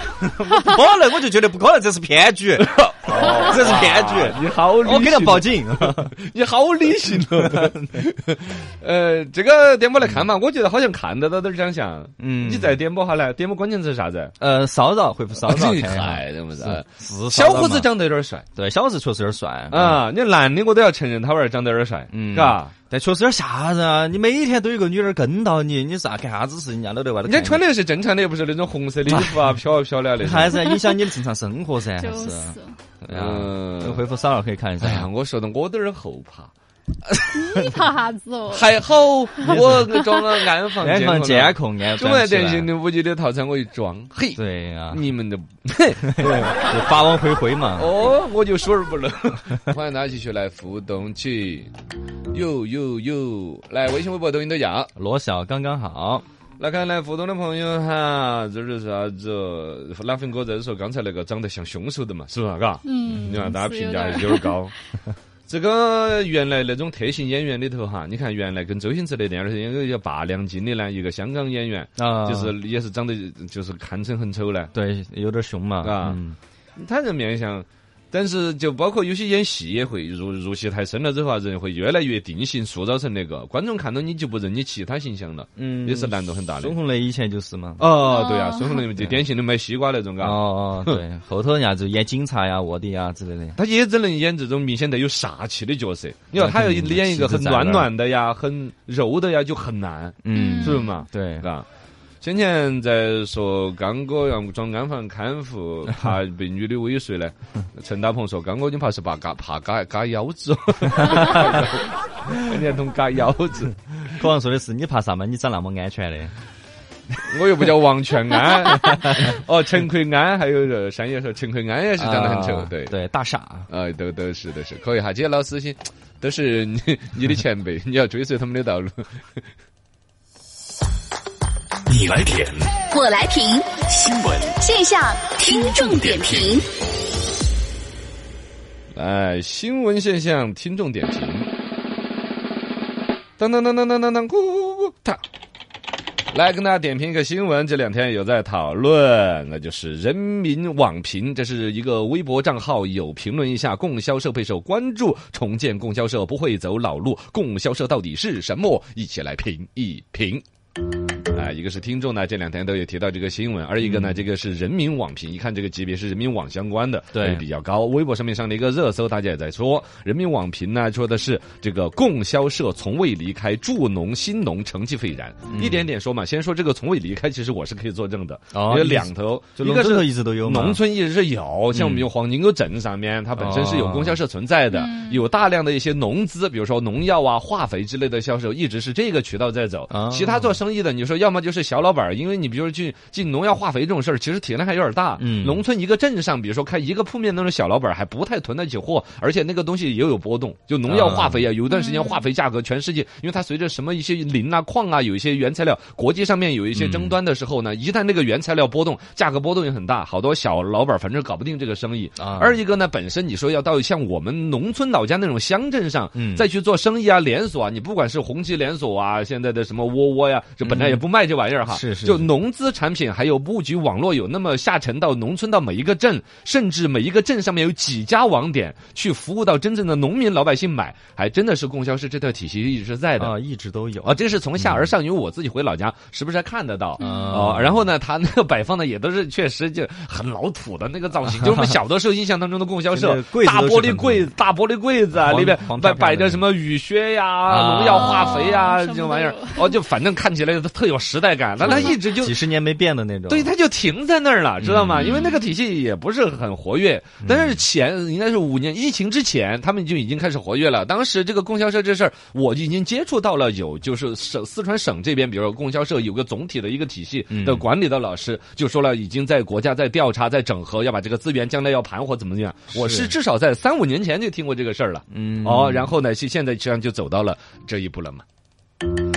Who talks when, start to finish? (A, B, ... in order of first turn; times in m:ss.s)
0:00.2-0:06.1 A
0:02.6-0:14.3 B
0:07.4-0:08.0 A
0:12.2-0:12.8 A
0:14.4-0:17.9 A
0:15.4-0:18.4 B
0:18.5-0:20.0 A
0:19.7-0:22.7 B
0:22.1-0:27.6 A
0:27.2-0:30.7 B
0:29.1-0:29.5 A
0:30.2-0:35.1 A
0:32.0-0:32.8 C
0:33.1-0:34.0 B
0:34.8-0:36.5 B
0:37.3-0:38.7 C
0:38.5-0:46.6 B
0:39.4-0:39.9 A
0:40.8-0:42.7 A
0:44.4-0:45.0 A
0:46.0-0:48.0 A
0:47.8-0:51.7 B
0:52.3-0:54.9 B
0:55.0-0:56.2 A
0:56.6-1:04.7 B
1:02.8-1:04.6 C
1:05.5-1:14.7 B
1:12.0-1:12.5 A
1:14.7-1:16.4 A
1:15.8-1:16.2 B
1:16.8-1:26.7 B
1:25.6-1:27.9 A
1:27.8-1:31.0 B
1:28.0-1:28.9 C
1:30.2-1:33.6 A
1:33.6-1:41.6 B
1:36.4-1:37.9 A
1:40.2-1:41.5 A
1:40.3-1:40.9 C
1:42.2-1:54.2 B
1:54.1-1:56.3 A
1:57.2-2:02.9 B
1:58.8-1:59.3 A
2:02.0-2:03.7 A
2:03.7-2:09.2 B
2:11.9-2:12.8 D
2:12.9-2:13.9 E
2:13.8-2:14.6 D
2:14.6-2:16.6 E
2:15.5-2:16.4 D
2:18.9-2:21.5 B
2:23.4-2:25.2 B
2:26.3-2:40.4 B
2:41.3-3:53.3 B
2:43.8-2:44.2 A
2:47.1-2:47.4 A
2:55.5-2:55.8 A
2:58.5-3:00.8 A
3:01.7-3:02.1 A
3:03.4-3:04.2 A
3:04.7-3:05.2 C
3:09.9-3:10.6 A
3:15.2-3:15.6 A
3:20.9-3:21.5 A
3:21.7-3:22.2 C
3:26.7-3:27.1 A
3:32.2-3:32.6 A
3:36.1-3:36.4 A
3:40.6-3:41.0 A
3:41.7-3:42.3 A
3:53.2-3:54.9 A
3:54.0-4:12.4 B
3:57.0-3:57.8 A
3:57.0-3:57.5 C
4:02.9-4:04.3 A
4:05.2-4:06.4 A
4:07.5-4:08.4 A
4:07.8-4:09.8 C
4:11.6-4:12.0 C
4:11.6-4:13.5 A
4:13.3-4:38.2 B
4:14.6-4:15.3 A
4:15.0-4:15.4 C
4:17.2-4:17.6 A
4:27.3-4:27.6 A
4:32.7-4:33.1 A
4:35.1-4:35.9 A